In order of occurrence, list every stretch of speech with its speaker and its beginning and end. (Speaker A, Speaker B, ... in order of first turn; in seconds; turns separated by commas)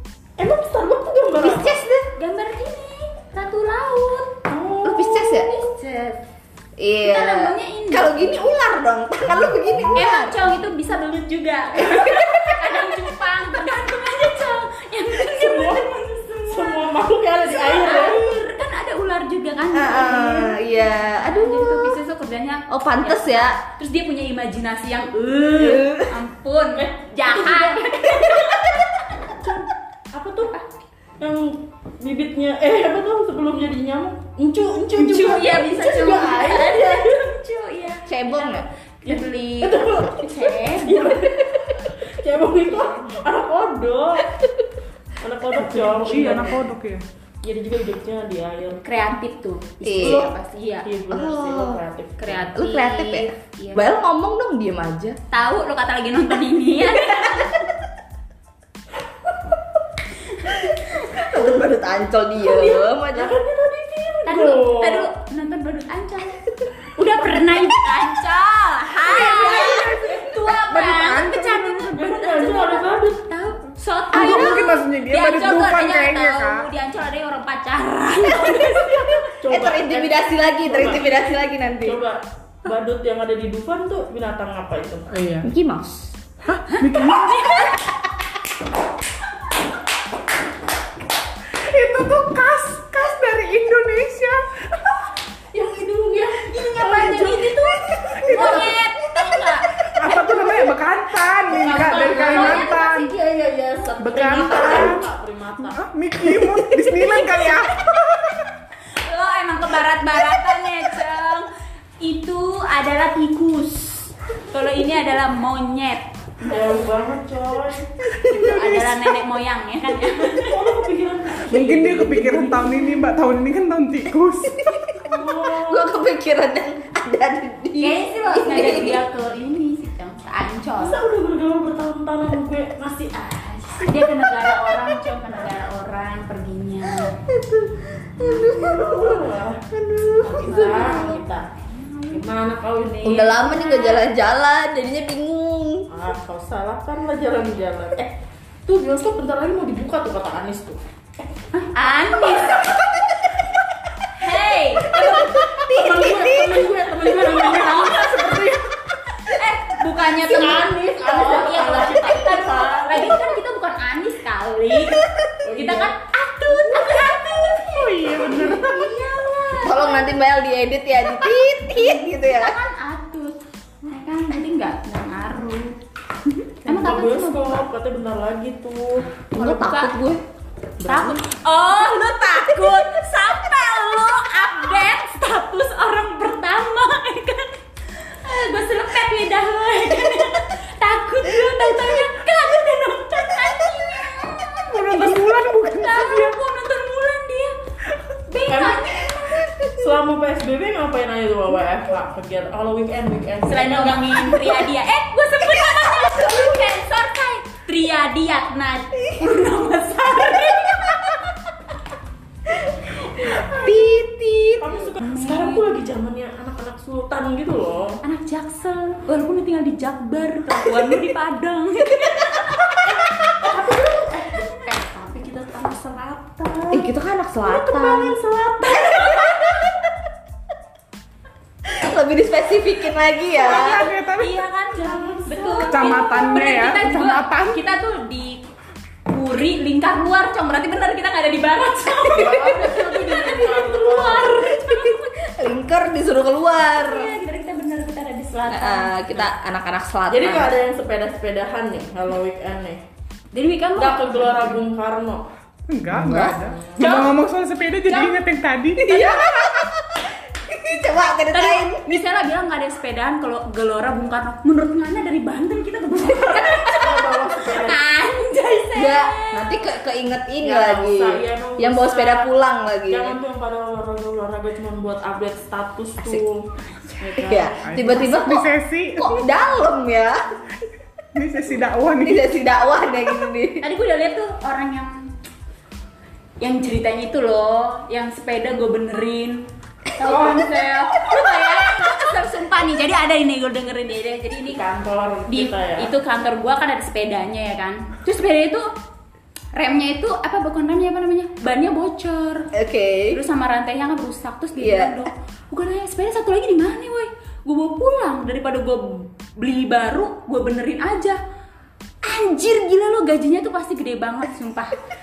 Speaker A: 0.4-1.8, Speaker B: 1.4-2.1, Speaker C: 2.1-4.3, Speaker A: 4.5-5.3, Speaker B: 4.8-5.5, Speaker C: 5.4-6.2, Speaker B: 6.8-10.3, Speaker C: 7.0-8.2, Speaker C: 9.9-16.9, Speaker A: 15.2-18.3, Speaker C: 17.5-28.8, Speaker B: 19.7-22.0, Speaker B: 22.7-23.6, Speaker B: 25.6-26.1, Speaker A: 26.8-28.6, Speaker A: 29.2-30.5, Speaker A: 31.2-37.2, Speaker C: 35.0-41.1, Speaker B: 38.1-38.6, Speaker A: 39.0-44.4, Speaker C: 42.6-43.0, Speaker A: 45.2-46.6, Speaker D: 45.6-47.0, Speaker A: 47.4-48.8, Speaker C: 48.8-50.9, Speaker B: 49.8-50.3, Speaker A: 50.0-50.3, Speaker A: 50.8-52.5, Speaker B: 51.1-51.8, Speaker C: 52.2-54.0, Speaker B: 52.5-55.2, Speaker C: 55.3-57.7, Speaker C: 60.3-61.3, Speaker B: 61.1-63.3, Speaker A: 62.4-65.1, Speaker C: 64.2-79.3, Speaker B: 69.0-70.2, Speaker A: 69.3-69.7, Speaker D: 70.4-72.0, Speaker A: 71.9-73.2, Speaker D: 74.1-76.7, Speaker B: 78.9-82.0, Speaker A: 79.4-85.1, Speaker D: 85.1-85.5, Speaker B: 85.4-86.1, Speaker D: 86.5-87.7, Speaker C: 86.7-87.7, Speaker D: 91.6-94.5, Speaker A: 95.5-98.7, Speaker C: 96.5-100.7, Speaker D: 98.2-98.6, Speaker D: 99.9-103.1, Speaker C: 101.5-103.1, Speaker A: 101.6-105.8, Speaker C: 103.7-104.7, Speaker D: 104.0-105.0, Speaker B: 104.2-105.0, Speaker D: 105.6-107.9, Speaker C: 109.0-111.5, Speaker C: 112.0-116.8, Speaker A: 116.4-117.9, Speaker D: 118.2-119.1, Speaker C: 118.3-120.6, Speaker A: 120.2-122.8, Speaker D: 121.5-124.6, Speaker A: 125.0-125.9, Speaker B: 125.5-129.0, Speaker C: 127.8-131.0, Speaker A: 130.8-134.0, Speaker C: 133.8-137.2, Speaker B: 136.9-140.9, Speaker A: 138.3-139.6, Speaker A: 140.2-141.4, Speaker C: 140.2-142.2, Speaker A: 142.1-143.4, Speaker B: 143.0-145.9, Speaker C: 143.3-144.1, Speaker A: 145.9-148.1, Speaker A: 148.7-151.3, Speaker C: 151.5-152.6, Speaker C: 154.2-156.1, Speaker B: 154.9-156.6, Speaker A: 155.7-158.6, Speaker C: 157.0-158.5, Speaker C: 159.2-165.0, Speaker A: 160.2-163.2, Speaker B: 164.8-165.3, Speaker A: 165.4-165.9, Speaker C: 165.6-170.2, Speaker D: 167.6-168.8, Speaker B: 169.6-172.6, Speaker C: 171.1-177.6, Speaker A: 176.6-179.1, Speaker B: 179.3-180.2, Speaker C: 179.3-179.9, Speaker B: 180.8-181.2, Speaker C: 180.8-187.6, Speaker C: 188.2-197.5, Speaker D: 194.7-196.3, Speaker C: 198.3-199.4, Speaker A: 198.5-198.8, Speaker B: 199.3-199.8, Speaker A: 199.8-204.5, Speaker C: 203.5-211.3, Speaker B: 213.3-214.8, Speaker A: 214.6-217.9, Speaker C: 215.0-215.6, Speaker C: 218.0-222.4, Speaker A: 223.4-226.8, Speaker B: 226.7-228.2, Speaker A: 227.4-229.5, Speaker B: 231.7-233.9, Speaker C: 233.3-238.4, Speaker D: 233.4-234.4, Speaker A: 234.7-236.2, Speaker D: 235.7-237.6, Speaker C: 239.1-245.1, Speaker A: 242.1-244.5, Speaker B: 244.5-247.1, Speaker C: 246.7-249.2, Speaker B: 248.5-250.5, Speaker A: 250.1-252.8, Speaker C: 253.3-254.6, Speaker A: 253.8-255.2, Speaker D: 255.7-258.9, Speaker B: 255.9-256.4, Speaker A: 256.4-256.9, Speaker C: 256.8-257.1, Speaker C: 257.8-258.2, Speaker B: 258.8-261.8, Speaker C: 261.3-269.6, Speaker A: 266.8-267.8, Speaker B: 268.8-273.1, Speaker A: 270.4-272.3, Speaker A: 272.9-276.4, Speaker C: 276.7-277.1, Speaker A: 277.0-277.5, Speaker B: 277.2-280.2, Speaker D: 277.6-279.2, Speaker D: 281.1-282.4, Speaker B: 282.0-283.6, Speaker C: 283.6-285.1, Speaker C: 286.4-294.6, Speaker A: 294.4-295.9, Speaker C: 295.3-298.6, Speaker C: 299.5-302.4, Speaker B: 302.6-303.2, Speaker C: 303.1-311.2, Speaker B: 304.6-305.0, Speaker C: 312.0-314.8